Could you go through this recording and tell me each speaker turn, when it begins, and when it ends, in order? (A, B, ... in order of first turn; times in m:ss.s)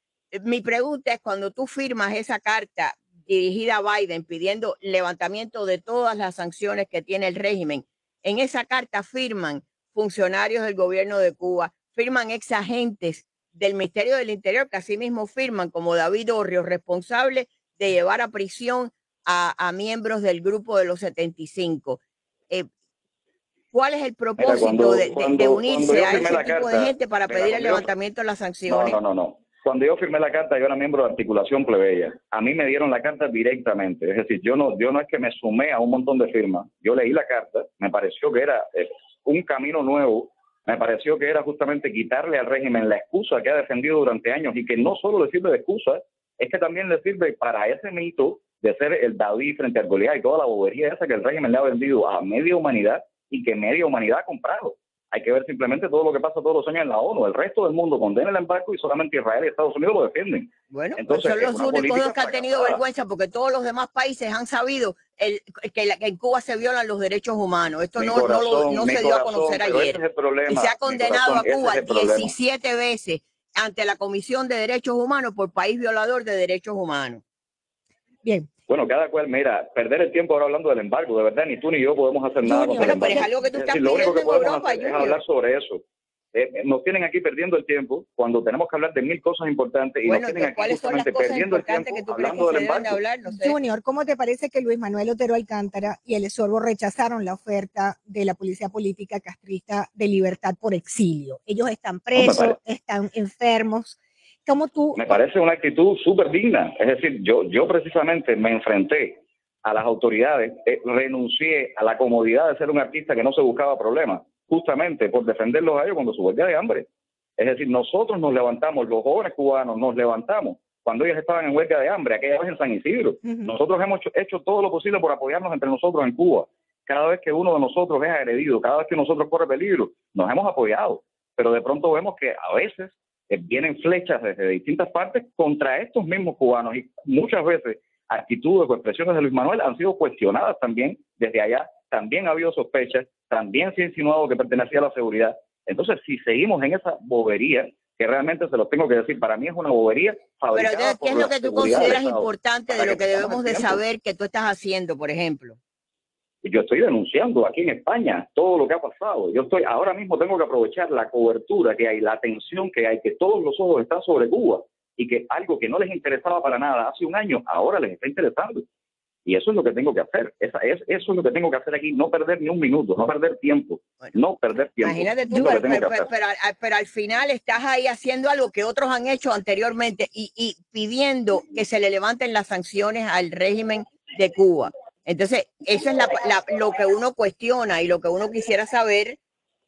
0:00.3-0:22.7 A
0:23.7-0:29.0 A
0:24.4-0:27.9 B
0:28.7-1:02.8 B
1:00.7-1:17.2 A
1:08.0-1:12.3 B
1:18.7-1:33.0 B
1:22.4-1:23.3 C
1:22.8-1:25.2 A
1:30.0-1:33.6 A
1:33.2-1:45.2 C
1:42.2-1:42.6 B
1:44.9-2:33.8 B
2:03.2-2:03.5 C
2:30.5-2:35.6 A
2:36.4-2:48.6 B
2:49.2-2:56.1 B
2:54.8-3:09.2 A